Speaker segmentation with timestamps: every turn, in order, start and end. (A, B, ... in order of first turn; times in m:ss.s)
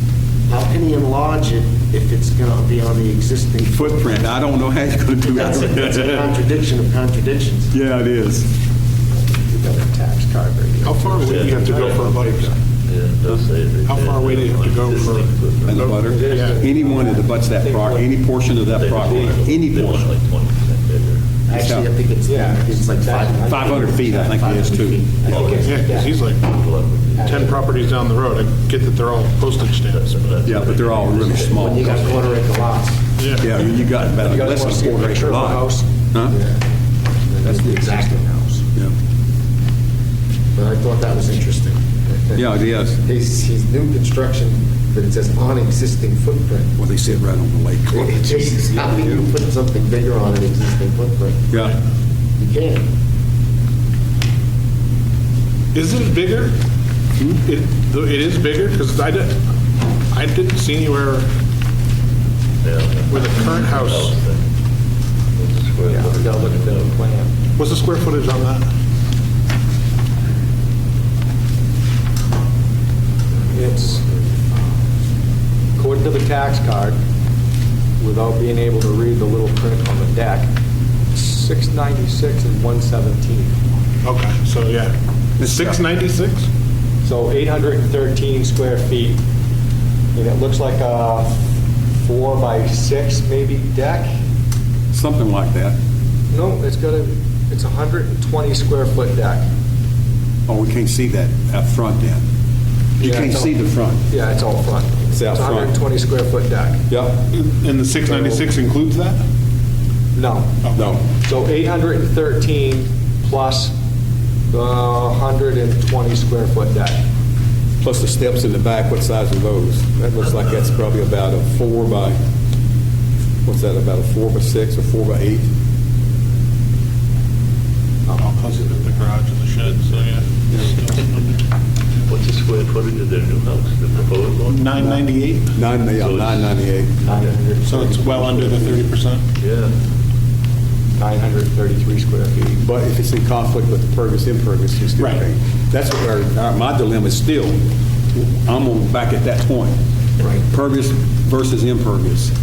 0:00.5-0:04.4 A
0:03.7-0:06.4 B
0:05.3-0:07.7 A
0:07.7-0:08.5 B
0:09.1-0:12.6 C
0:10.8-0:12.5 D
0:11.1-0:12.2 E
0:12.8-0:16.0 E
0:13.8-0:16.6 D
0:15.6-0:20.1 B
0:16.0-0:18.1 C
0:18.6-0:21.2 E
0:19.0-0:19.4 C
0:21.5-0:25.8 A
0:21.5-0:21.9 B
0:22.2-0:24.3 C
0:23.5-0:25.1 B
0:25.2-0:26.1 C
0:25.3-0:26.6 D
0:26.3-0:28.0 E
0:27.2-0:27.6 C
0:27.2-0:30.4 D
0:29.9-0:32.4 E
0:30.4-0:32.2 B
0:31.5-0:33.0 A
0:33.2-0:33.5 D
0:33.4-0:36.4 B
0:34.2-0:35.9 C
0:36.3-0:36.6 A
0:37.3-0:38.2 A
0:37.4-0:38.6 C
0:40.5-0:42.5 A
0:42.3-0:43.0 B
0:43.0-0:46.7 A
0:46.8-0:48.7 B
0:47.9-0:51.5 A
0:48.5-0:49.3 C
0:52.4-0:52.8 A
0:55.7-0:56.5 D
0:57.4-0:59.4 D
1:00.1-1:01.3 D
1:02.6-1:04.5 E
1:03.1-1:04.2 D
1:05.3-1:07.0 E
1:05.8-1:07.3 C
1:07.6-1:08.6 D
1:13.3-1:14.8 A
1:13.5-1:14.0 C
1:15.8-1:17.0 C
1:18.0-1:20.5 C
1:21.1-1:23.5 C
1:24.0-1:26.5 D
1:25.4-1:25.8 B
1:27.0-1:29.2 C
1:30.1-1:31.4 C
1:32.0-1:34.1 C
1:34.9-1:35.8 B
1:36.3-1:39.5 C
1:40.5-1:42.2 B
1:43.0-1:44.0 B
1:43.0-1:43.5 C
1:44.1-1:46.8 C
1:45.1-1:45.7 B
1:46.9-1:47.2 B
1:47.3-1:49.2 D
1:48.0-1:48.4 C
1:50.1-1:53.7 C
1:50.6-1:50.9 D
1:50.7-1:51.0 B
1:54.5-1:57.0 C
1:57.8-2:02.2 B
2:03.4-2:05.5 B
2:08.0-2:08.9 C
2:08.2-2:11.4 D
2:12.0-2:14.9 E
2:14.5-2:15.5 D
2:14.8-2:16.9 B
2:15.9-2:16.6 E
2:17.0-2:18.8 C
2:17.1-2:17.5 E
2:17.6-2:19.2 D
2:19.4-2:19.7 E
2:21.0-2:22.6 C
2:22.6-2:27.5 B
2:25.0-2:25.2 D
2:28.1-2:29.8 B
2:30.5-2:32.3 B